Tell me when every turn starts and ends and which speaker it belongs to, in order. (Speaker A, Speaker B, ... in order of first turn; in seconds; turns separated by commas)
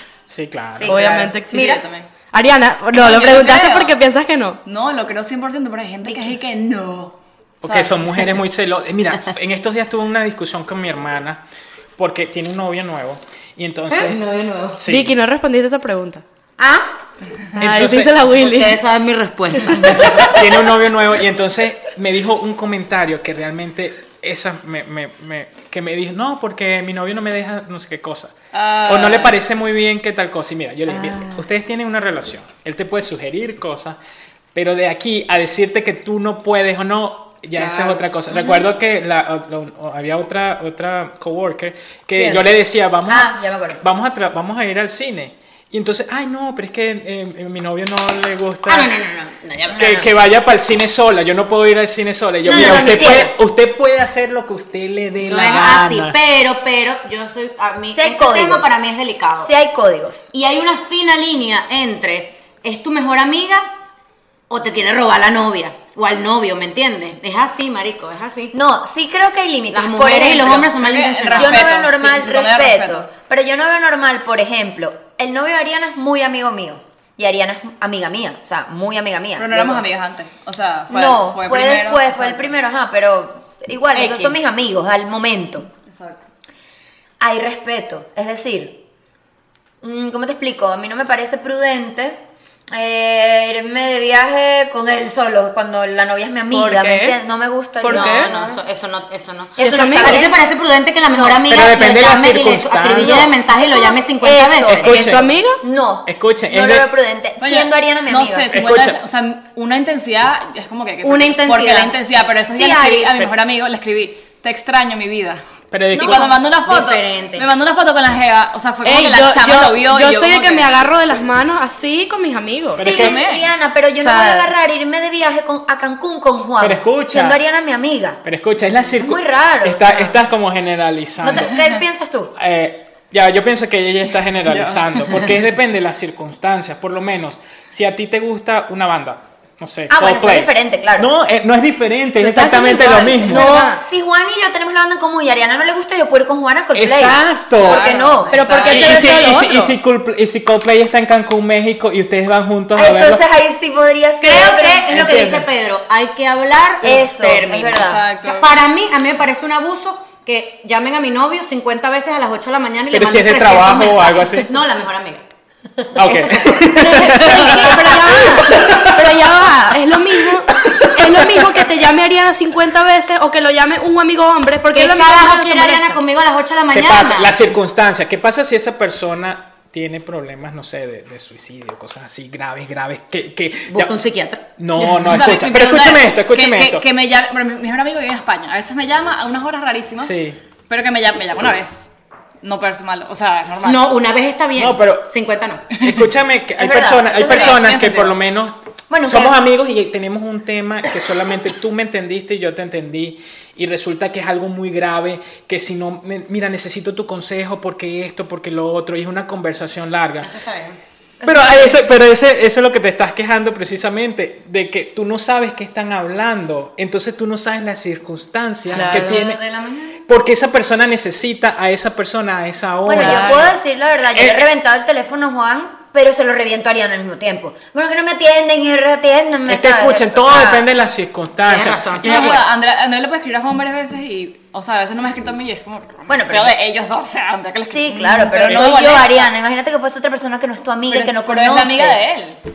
Speaker A: 0.3-1.0, Speaker B: 0.8-1.8, Speaker C: 0.8-1.6, Speaker D: 1.5-2.1, Speaker C: 2.3-4.6, Speaker D: 2.9-4.0, Speaker D: 4.6-8.2, Speaker B: 6.0-6.4, Speaker A: 7.6-11.4, Speaker A: 12.0-14.2, Speaker E: 13.9-14.8, Speaker A: 14.8-15.1, Speaker C: 14.9-16.2, Speaker E: 16.6-16.9, Speaker A: 17.6-18.2, Speaker C: 17.6-18.8, Speaker E: 18.3-20.5, Speaker A: 19.9-28.3, Speaker D: 28.5-29.4, Speaker A: 28.9-34.0, Speaker A: 34.5-48.9, Speaker B: 43.1-43.8, Speaker E: 48.7-50.1, Speaker A: 49.7-56.2, Speaker B: 52.4-53.3, Speaker E: 52.5-53.3, Speaker E: 55.2-59.5, Speaker B: 57.9-58.7, Speaker B: 59.4-60.3, Speaker E: 60.3-63.7, Speaker E: 64.5-68.5, Speaker B: 68.5-70.7, Speaker E: 69.7-71.7, Speaker D: 70.8-73.1, Speaker B: 71.3-79.9, Speaker D: 79.4-82.5, Speaker B: 80.9-85.7, Speaker E: 83.9-84.4, Speaker D: 85.9-86.3, Speaker B: 87.2-88.8, Speaker B: 89.8-92.2, Speaker B: 92.7-98.3, Speaker C: 96.5-97.2, Speaker C: 97.8-98.6, Speaker E: 97.9-104.9, Speaker B: 99.5-100.4, Speaker C: 99.6-100.3, Speaker B: 101.1-101.4, Speaker A: 101.5-103.3, Speaker B: 103.5-104.9, Speaker A: 104.8-105.3, Speaker C: 104.8-105.6, Speaker B: 105.6-108.5, Speaker A: 106.1-106.9, Speaker D: 107.4-115.4, Speaker A: 108.5-109.0, Speaker E: 111.0-112.0, Speaker B: 112.5-113.3, Speaker A: 115.7-116.3, Speaker B: 115.9-116.4, Speaker D: 116.0-120.8, Speaker E: 116.7-117.5, Speaker C: 118.8-122.9, Speaker A: 122.7-123.2, Speaker B: 122.8-128.2, Speaker D: 122.9-123.5, Speaker C: 124.0-124.5, Speaker A: 126.6-127.4, Speaker A: 128.2-131.6, Speaker B: 128.9-130.2, Speaker B: 131.2-132.3, Speaker A: 132.4-143.5, Speaker B: 139.9-141.1, Speaker C: 142.2-143.8, Speaker B: 143.2-148.3, Speaker A: 146.7-147.9, Speaker D: 147.6-149.1, Speaker C: 148.3-149.8, Speaker A: 148.7-153.2, Speaker B: 152.8-154.9, Speaker E: 154.2-165.2, Speaker A: 154.9-155.5, Speaker B: 156.8-158.0, Speaker D: 157.8-158.5, Speaker A: 162.9-164.5, Speaker A: 166.0-169.2, Speaker E: 166.0-168.9, Speaker C: 166.7-176.0, Speaker A: 171.2-171.6, Speaker E: 174.7-177.5, Speaker A: 176.7-183.9, Speaker E: 183.7-185.2, Speaker A: 184.6-186.8, Speaker D: 185.1-190.1, Speaker A: 190.0-190.4, Speaker D: 190.7-191.9, Speaker D: 192.4-193.8, Speaker E: 193.6-195.8, Speaker A: 194.6-195.1, Speaker A: 195.8-210.3, Speaker B: 196.6-197.7, Speaker D: 197.1-198.2, Speaker B: 198.9-199.4, Speaker E: 210.2-210.8, Speaker B: 211.2-211.7, Speaker A: 211.2-219.4, Speaker E: 218.7-220.0, Speaker C: 218.7-219.2, Speaker A: 220.1-223.6, Speaker B: 222.8-230.7, Speaker C: 222.9-223.6, Speaker A: 224.2-224.5, Speaker A: 229.5-232.0, Speaker E: 231.4-232.5, Speaker D: 232.0-239.3, Speaker B: 236.1-236.6, Speaker B: 237.6-242.1, Speaker D: 240.9-242.4